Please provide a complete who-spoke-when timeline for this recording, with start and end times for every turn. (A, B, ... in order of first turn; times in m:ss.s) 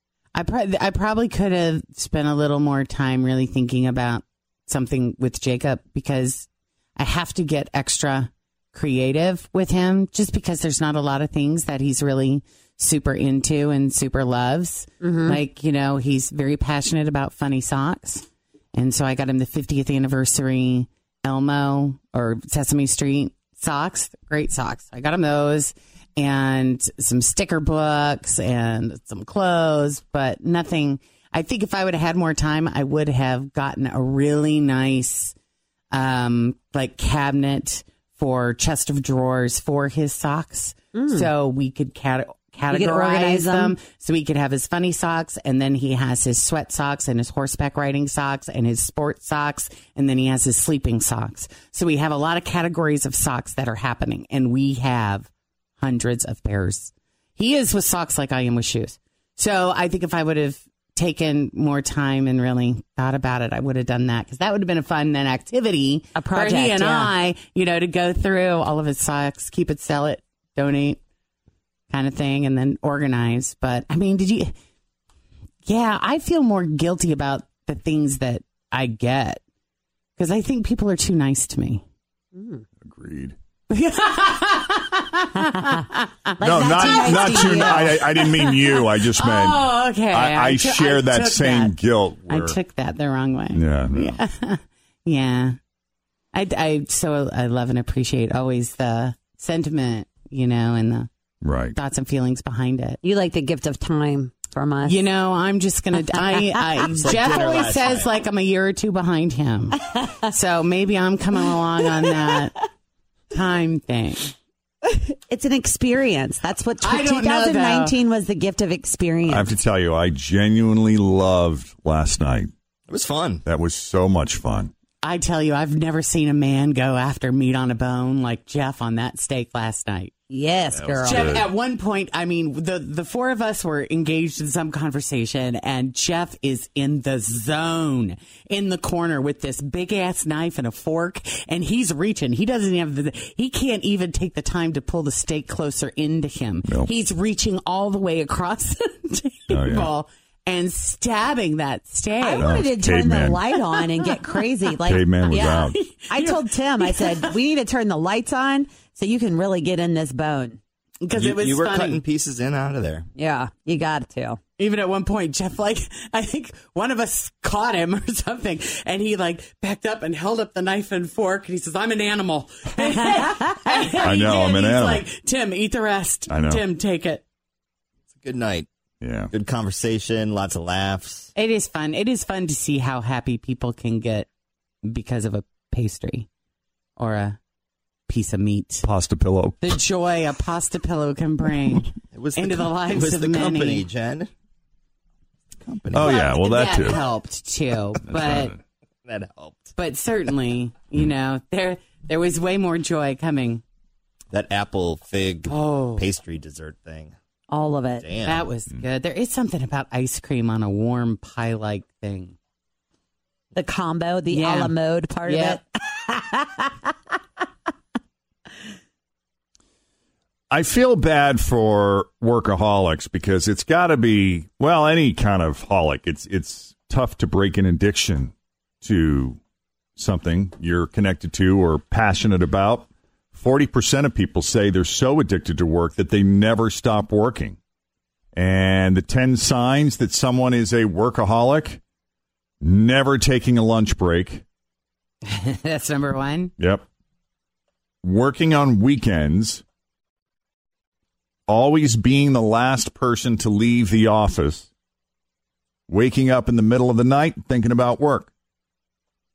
0:00.4-0:35.3 A
0:15.0-0:15.4 B
0:35.9-1:11.0 A
0:41.0-0:41.3 B
0:42.7-0:43.8 B
1:06.2-1:07.1 B
1:11.9-1:14.6 A
1:15.6-1:19.4 A
1:20.2-1:21.8 A
1:22.4-1:22.6 B
1:22.8-1:23.4 C
1:23.7-1:31.8 A
1:26.4-1:28.0 B
1:26.4-1:32.6 C
1:32.3-1:35.6 A
1:33.5-1:34.2 C
1:36.3-1:41.1 A
1:41.4-1:41.8 C
1:41.8-1:43.0 A
1:43.0-1:45.0 B
1:44.9-1:52.6 A
1:46.9-1:48.1 D
1:53.3-1:54.3 A
1:55.3-1:59.5 B
1:56.8-1:58.0 A
1:59.3-2:02.5 C
2:02.9-2:03.4 D
2:03.4-2:04.7 C
2:05.0-2:10.1 A
2:10.3-2:11.5 B
2:10.7-2:11.4 D
2:11.0-2:11.4 C
2:11.0-2:32.5 A
2:29.5-2:29.9 C
2:32.2-2:40.6 B
2:32.4-2:33.4 C
2:34.0-2:34.4 A
2:34.8-2:35.8 C
2:35.3-2:37.3 A
2:41.0-2:42.0 A
2:41.1-2:43.1 D
2:43.2-2:44.4 B
2:44.6-2:57.2 A
2:54.0-2:55.0 C
2:56.3-2:56.6 C
2:58.2-2:58.7 D
2:59.0-2:59.3 C
2:59.3-3:01.3 D
3:01.4-3:04.3 A
3:04.8-3:06.3 A
3:07.0-3:07.4 A
3:08.1-3:08.9 A
3:08.8-3:09.8 C
3:09.6-3:13.9 A
3:12.1-3:14.3 D
3:15.6-3:16.2 D
3:15.9-3:17.0 C
3:16.0-3:18.6 A
3:19.0-3:19.7 D
3:19.8-3:23.6 A
3:24.3-3:27.1 D
3:25.5-3:26.0 A
3:27.5-3:28.1 B
3:28.0-3:28.5 D
3:28.2-3:32.4 A
3:33.5-3:36.9 B
3:34.3-3:34.7 A
3:35.3-3:35.6 A
3:40.5-3:49.4 C
3:50.0-3:57.6 C
3:58.4-4:01.8 C
4:02.6-4:04.4 C
4:05.3-4:06.5 A
4:06.6-4:06.8 C
4:08.0-4:09.6 C
4:11.5-4:14.7 C
4:15.9-4:18.3 C